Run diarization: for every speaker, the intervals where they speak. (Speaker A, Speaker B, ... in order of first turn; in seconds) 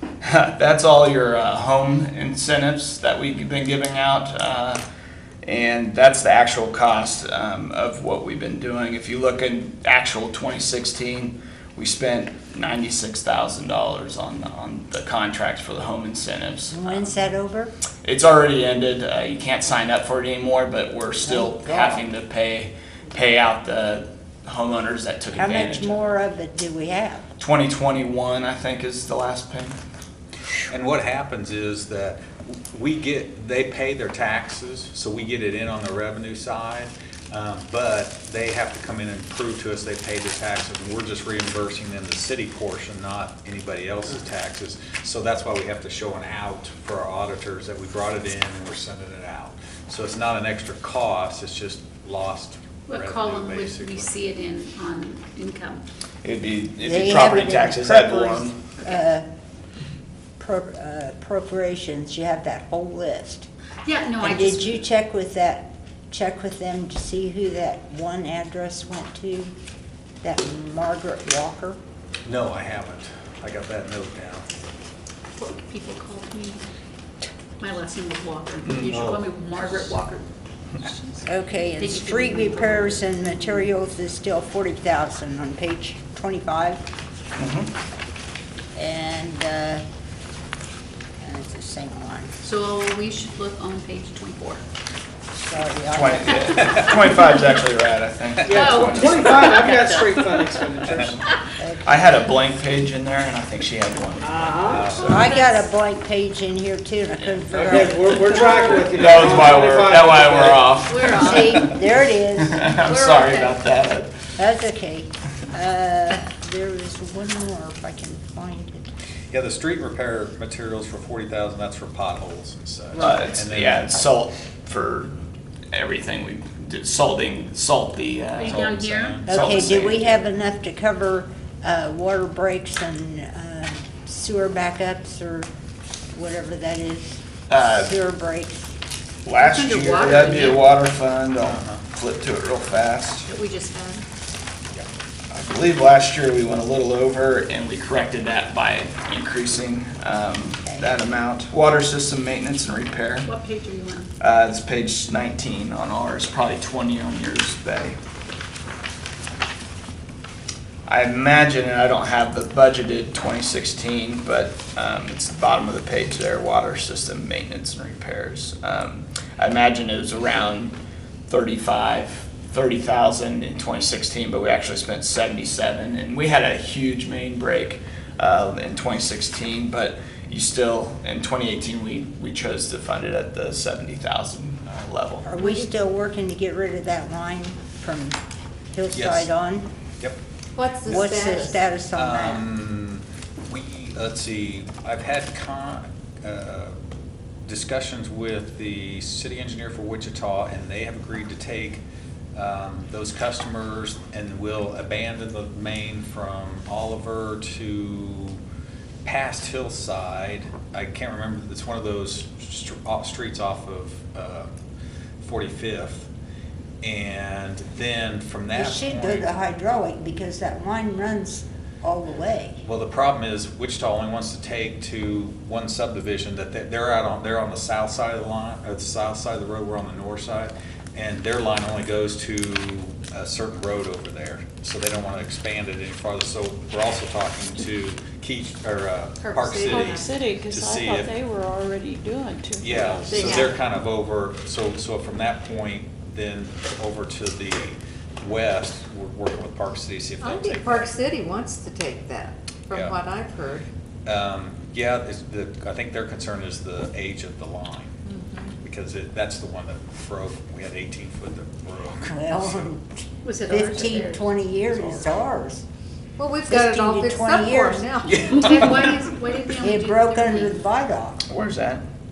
Speaker A: 0.2-4.8, 5.4-17.1, 18.0-26.0, 27.4-29.8, 56.2-58.6, 87.4-87.7, 95.9-99.2, 101.8-105.3, 107.5-108.3, 108.8-111.7, 112.4-114.1, 123.0-125.2, 125.7-130.1, 137.5-137.9, 139.3-143.3, 145.3-153.3, 154.2-158.0, 160.9-170.8, 171.3-185.3, 271.3-271.8
Speaker B: 16.7-17.7, 21.2-22.1, 25.4-27.3, 56.8-59.3, 60.4-63.5, 64.2-69.5, 70.2-71.8, 81.2-86.8, 88.8-89.8, 91.2-92.3, 95.3-96.8, 101.6-102.1, 105.1-109.2, 111.2-112.7, 114.4-118.9, 123.0-123.3, 129.3-135.5, 136.1-138.8, 150.6-150.9, 185.2-188.2, 188.7-189.7, 190.8-192.5, 218.5-222.6, 262.0-262.9, 263.5-265.6, 266.5-267.9, 269.6-271.2
Speaker C: 30.7-54.1, 72.3-74.5, 78.7-79.2, 104.6-105.2, 119.3-124.1, 128.4-129.4, 141.4-141.8, 188.9-189.3, 191.9-196.8, 197.5-201.8, 202.3-208.4, 209.0-214.5, 215.2-216.1, 216.8-219.3, 222.6-241.2, 242.6-250.9, 252.7-253.0, 254.1-258.0, 258.6-262.7, 268.1-269.0
Speaker D: 52.9-55.8, 63.9-64.8, 75.4-76.6, 77.6-80.3, 80.8-81.2, 81.8-83.1, 92.4-94.6, 98.5-100.7, 104.9-105.6, 110.8-111.7, 112.8-113.7, 128.4-129.2, 139.4-140.7, 143.2-144.1, 153.2-154.1, 263.2-264.3, 268.3-270.6
Speaker E: 98.4-101.2, 104.2-104.9, 107.6-110.8
Speaker F: 190.6-191.6, 239.2-240.2, 243.1-243.5, 250.2-253.7, 258.1-258.5, 266.2-268.7
Speaker G: 239.6-243.5